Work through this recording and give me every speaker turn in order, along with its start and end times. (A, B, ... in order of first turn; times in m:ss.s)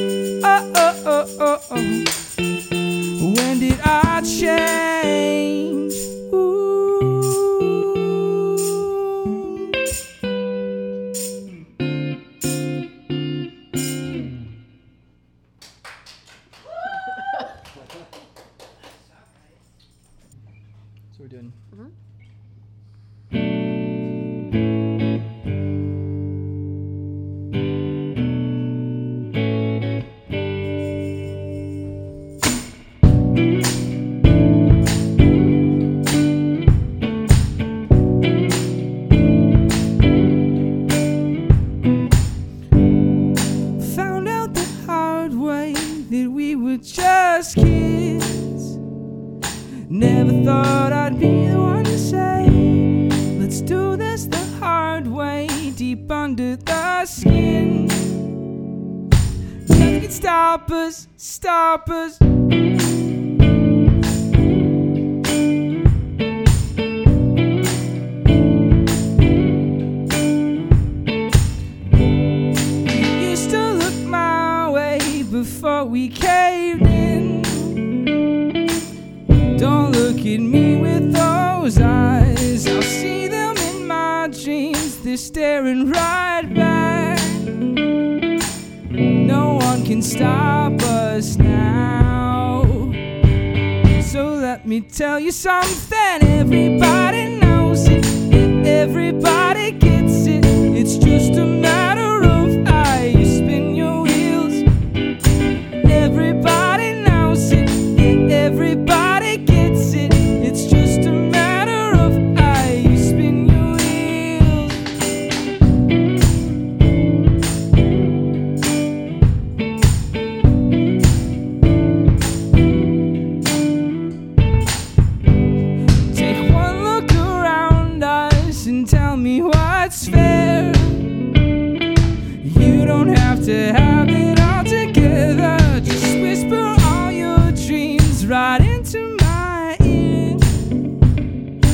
0:00.4-0:02.1 A
0:03.2-0:09.1 A
0:21.1-0:21.6 A
0:43.8-0:48.8 A
0:49.9-0:58.2 A
0:59.7-1:02.2 A
1:12.8-1:18.0 A
1:19.6-1:27.6 A
1:29.2-1:33.0 A
1:33.9-1:44.6 A
1:45.8-1:54.8 A
2:06.1-2:11.2 A
2:12.4-2:20.6 A